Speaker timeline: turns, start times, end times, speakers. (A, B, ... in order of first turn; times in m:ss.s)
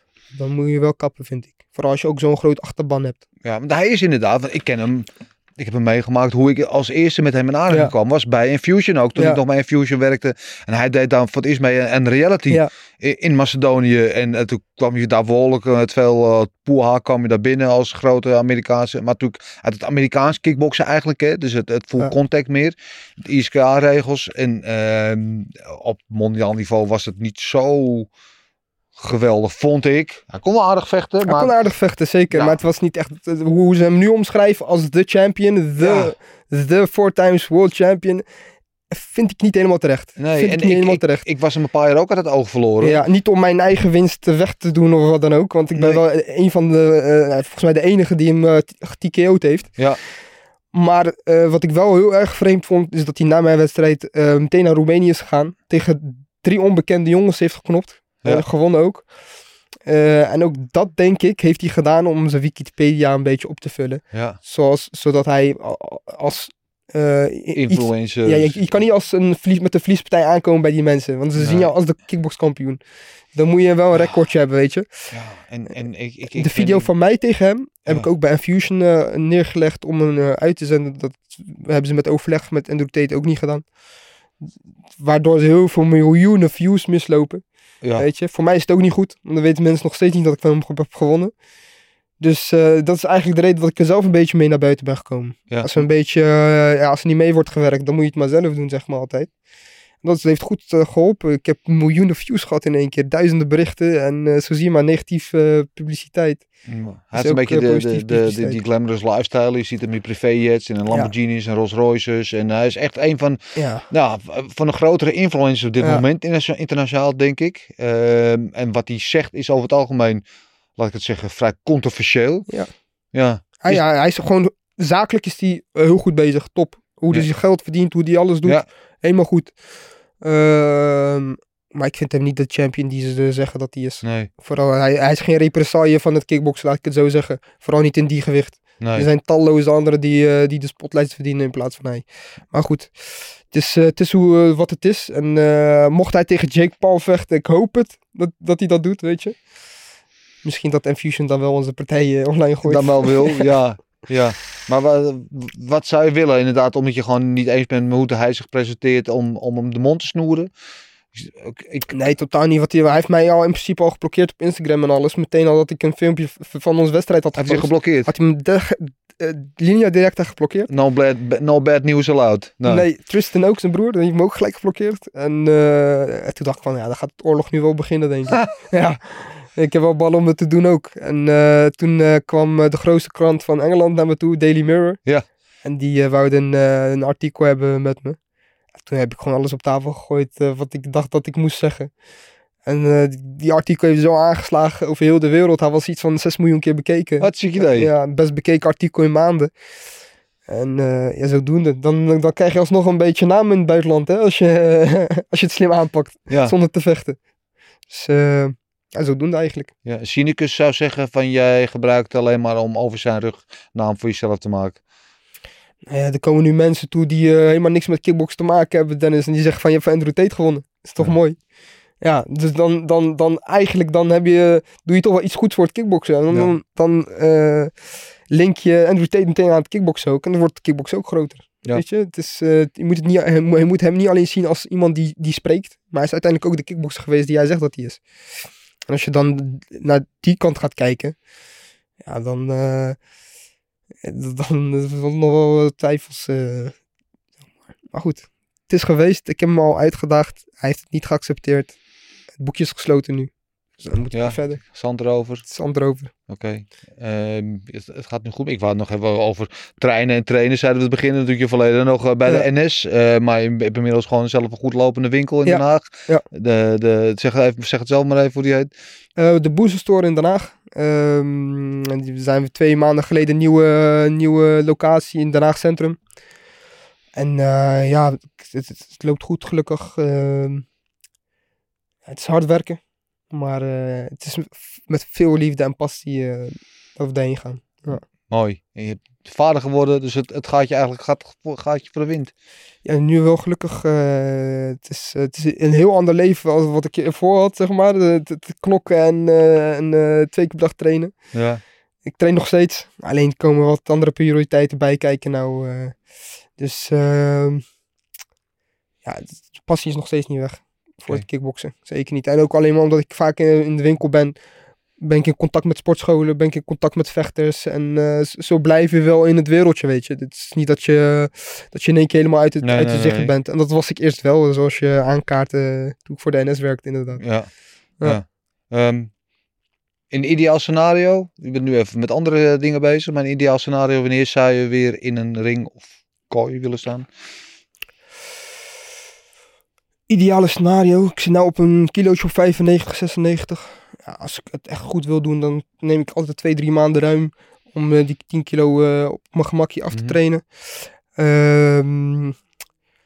0:00.3-0:03.2 A
0:03.4-0:28.1 B
0:09.2-0:09.4 A
0:29.0-0:31.5 B
0:31.2-0:38.2 A
0:32.3-0:32.6 B
0:35.8-0:36.1 B
0:38.9-0:41.2 A
0:40.2-0:43.0 B
0:42.8-0:49.8 A
0:50.7-0:59.0 A
0:59.8-1:12.8 A
1:04.1-1:04.4 B
1:07.5-1:08.8 B
1:11.4-1:11.7 B
1:13.3-1:14.9 A
1:15.1-1:16.9 B
1:16.3-1:23.6 A
1:25.0-1:27.4 A
1:27.8-1:28.1 B
1:28.0-1:31.3 A
1:32.2-1:39.3 A
1:35.5-1:35.8 B
1:40.0-1:46.4 A
1:46.7-2:00.2 B
1:47.1-1:48.6 A
1:53.6-1:53.8 A
2:00.8-2:02.5 B
2:03.1-2:03.8 B
2:03.6-2:09.5 A
2:10.2-2:29.4 A
2:14.0-2:14.3 B
2:18.8-2:19.1 B
2:30.4-2:33.5 A
2:32.6-2:40.5 B
2:41.1-2:41.9 B
2:41.9-2:50.7 A
2:47.4-2:48.1 B
2:50.7-2:52.8 B
2:52.6-3:05.0 A
3:05.6-3:08.2 A
3:08.8-3:11.9 A
3:12.6-3:19.5 A
3:17.2-3:17.9 B
3:20.5-3:27.2 A
3:26.3-3:26.5 B
3:27.9-3:29.7 A
3:29.8-3:34.8 B
3:35.9-3:41.4 A
3:42.0-3:47.7 A
3:48.3-3:58.0 A
3:58.9-4:01.2 A
4:02.0-4:03.0 A
4:04.0-4:06.8 A
4:07.9-4:11.8 A
4:12.4-4:14.6 A
4:14.1-4:15.4 B
4:15.4-4:16.1 A
4:16.3-4:28.7 B
4:25.4-4:26.2 A
4:29.2-4:36.0 A
4:37.2-4:40.7 A
4:42.0-4:48.0 A
4:48.3-4:52.3 B
4:52.8-5:01.1 A
5:01.3-5:01.6 B
5:02.0-5:06.0 A
5:06.6-5:07.6 A
5:09.0-5:14.4 A
5:15.0-5:27.2 A
5:22.6-5:23.3 B
5:27.2-5:29.1 B
5:30.1-5:37.1 B
5:40.1-5:52.4 A